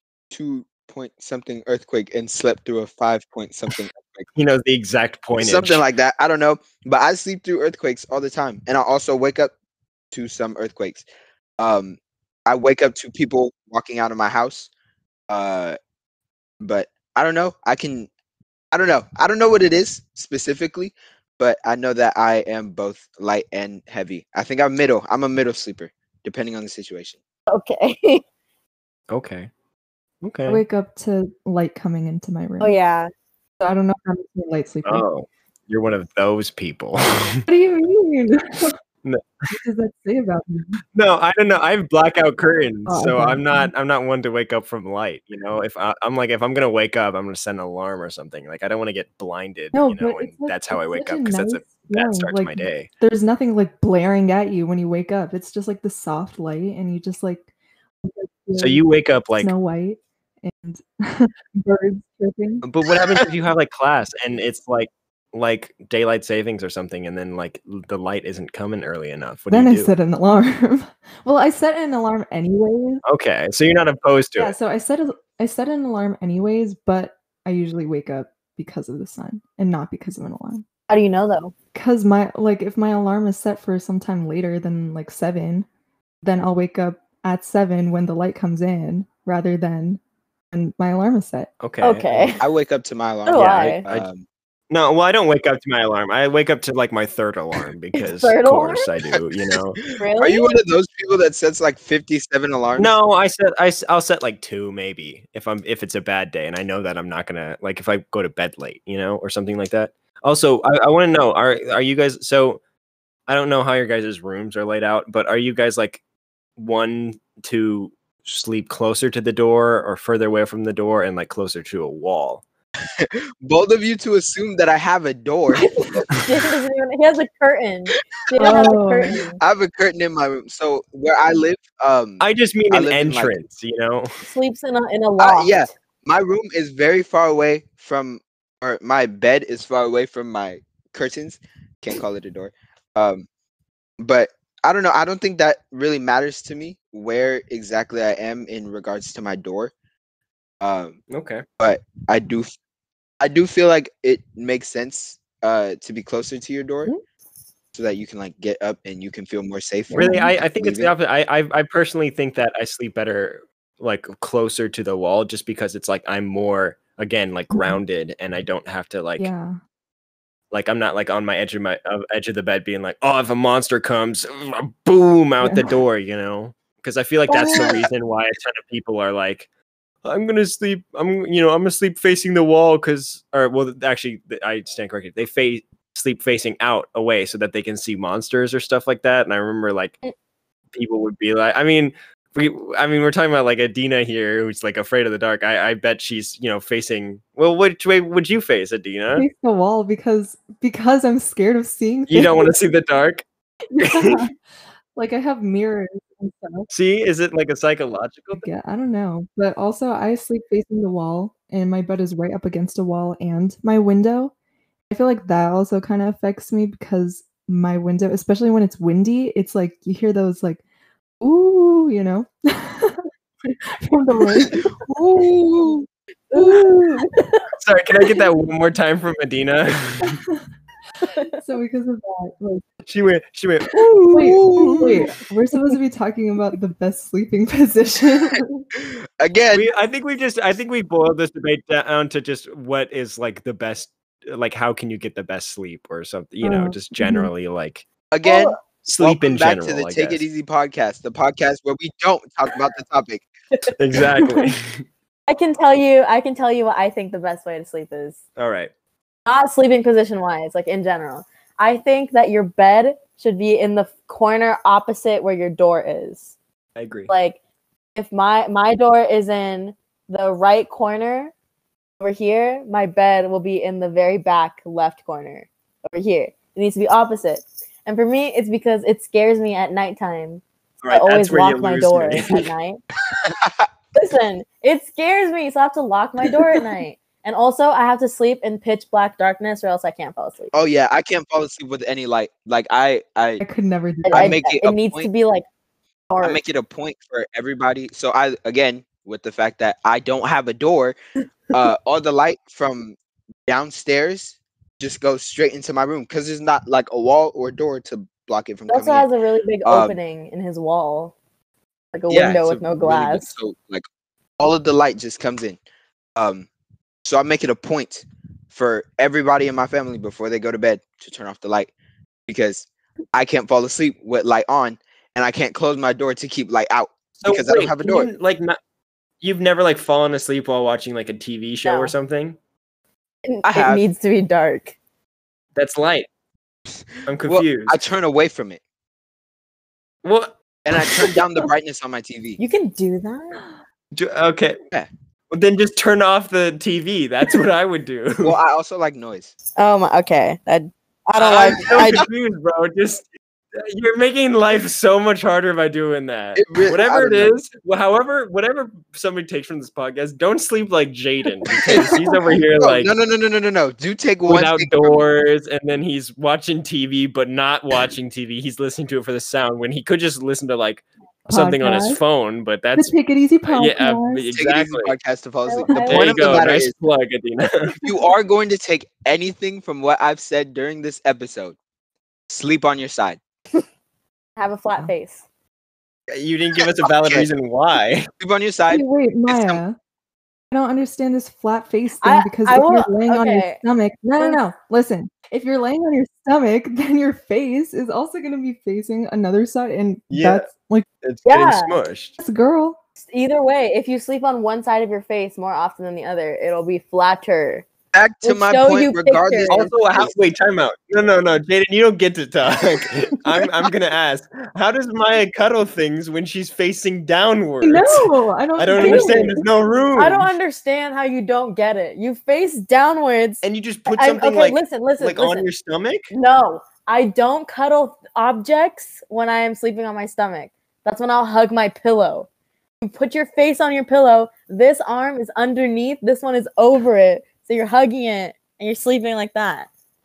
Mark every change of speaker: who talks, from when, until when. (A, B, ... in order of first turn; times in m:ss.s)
0:00.3-0:04.3 A
0:04.4-0:05.8 B
0:05.4-0:09.5 A
0:10.1-0:11.0 A
0:11.6-0:14.7 A
0:15.3-0:15.8 A
0:16.6-0:18.1 A
0:18.7-0:27.2 A
0:27.5-0:28.2 C
0:29.1-0:29.5 B
0:30.2-0:30.6 B
0:30.5-0:32.8 D
0:32.6-0:33.1 C
0:33.6-0:35.0 D
0:34.8-0:37.4 B
0:37.5-0:38.8 D
0:39.0-0:39.5 B
0:39.5-0:40.8 D
0:41.0-0:52.9 B
0:42.9-0:43.7 D
0:49.7-0:57.5 D
0:58.0-0:58.8 D
0:58.6-0:59.5 B
0:59.4-1:02.6 D
1:02.6-1:09.9 B
1:09.5-1:13.0 D
1:13.0-1:14.6 B
1:14.4-1:20.6 D
1:20.9-1:21.5 C
1:21.7-1:25.7 D
1:26.2-1:30.0 D
1:30.5-1:31.5 D
1:31.6-1:32.4 B
1:31.8-1:32.4 C
1:32.4-1:34.2 A
1:33.3-1:33.8 C
1:33.3-1:34.1 B
1:34.7-1:39.8 B
1:38.0-1:38.9 C
1:39.9-1:42.9 A
1:40.0-1:40.6 C
1:42.8-1:52.6 B
1:53.3-1:56.0 B
1:56.6-2:02.4 B
2:03.0-2:06.0 A
2:05.6-2:09.4 C
2:08.3-2:08.8 A
2:08.4-2:09.2 D
2:09.4-2:13.3 A
2:12.2-2:14.1 B
2:14.2-2:15.7 C
2:15.2-2:23.3 A
2:24.0-2:29.7 A
2:30.6-2:31.0 A
2:31.1-2:31.4 B
2:31.6-2:32.5 A
2:33.2-2:36.9 A
2:37.7-2:40.9 A
2:39.9-2:40.3 D
2:39.9-2:49.3 B
2:47.5-2:47.8 D
2:49.2-2:49.6 D
2:50.5-2:59.5 B
2:55.4-2:55.8 D
2:57.5-2:57.8 A
3:00.0-3:10.0 B
3:10.7-3:19.3 B
3:19.2-3:22.5 D
3:22.1-3:23.2 B
3:23.8-3:24.3 B
3:23.8-3:24.3 D
3:25.0-3:26.7 D
3:26.7-3:28.4 B
3:28.4-3:34.3 D
3:34.9-3:40.6 D
3:41.2-3:44.6 D
3:45.2-3:45.7 C
3:46.3-3:47.4 C
3:47.6-3:50.2 B
3:50.0-3:50.4 D
3:51.0-3:51.3 C
3:51.4-3:52.6 D
3:52.9-3:55.1 B
3:54.1-3:58.5 D
3:58.8-3:59.6 A
3:59.5-4:07.8 B
4:06.4-4:07.3 D
4:08.1-4:13.3 A
4:08.2-4:08.6 C
4:08.8-4:10.2 B
4:13.8-4:14.8 B
4:14.2-4:14.5 D
4:15.3-4:18.2 C
4:18.4-4:18.7 B
4:19.3-4:26.3 C
4:26.8-4:27.1 B
4:27.1-4:27.4 C
4:28.0-4:31.3 C
4:32.0-4:42.8 C
4:40.8-4:42.5 B
4:43.2-4:43.7 A
4:43.9-4:50.5 C
4:50.5-4:53.4 A
4:53.4-4:54.4 D
4:54.0-4:55.4 C
4:54.1-4:55.1 A
4:56.1-4:56.4 C
4:56.2-5:01.0 A
5:01.5-5:09.1 A
5:08.7-5:11.1 C
5:09.6-5:10.0 A
5:11.9-5:13.3 C
5:12.1-5:13.8 A
5:14.4-5:15.6 A
5:16.2-5:16.5 A
5:17.0-5:21.7 A
5:22.3-5:28.1 A
5:27.2-5:28.6 B
5:29.2-5:32.4 B
5:31.6-5:31.9 C
5:33.3-5:34.8 C
5:33.4-5:33.8 A
5:35.6-5:36.1 B
5:37.1-5:37.8 B
5:37.2-5:38.6 A
5:40.0-5:40.3 B
5:40.6-5:42.4 A
5:42.4-5:43.4 C
5:43.9-5:44.6 B
5:45.3-5:48.4 B
5:48.2-5:49.3 A
5:49.6-5:52.1 C
5:51.2-6:02.9 B
5:51.6-5:52.0 A
5:56.4-5:57.3 A
6:01.7-6:02.0 A
6:02.5-6:05.0 A
6:04.3-6:12.9 B
6:11.3-6:12.0 D
6:12.8-6:14.3 D
6:13.5-6:14.9 B
6:14.3-6:16.7 A
6:15.5-6:16.4 C
6:15.8-6:17.8 B
6:17.8-6:21.6 A
6:22.3-6:23.2 A
6:24.4-6:25.2 C
6:26.1-6:28.1 B
6:26.9-6:27.3 A
6:28.2-6:29.6 A
6:28.7-6:29.8 D
6:30.5-6:40.9 D
6:32.0-6:33.6 C
6:40.1-6:40.5 B
6:41.0-6:42.1 B
6:41.3-6:41.8 C
6:42.2-6:42.8 D
6:43.1-6:47.7 C
6:47.9-6:50.2 A
6:48.2-6:49.7 C
6:49.5-7:00.3 B
6:57.6-6:59.4 D
6:58.8-6:59.4 C
7:00.0-7:05.5 C
7:03.4-7:06.1 B
7:06.1-7:12.3 C
7:12.8-7:19.7 C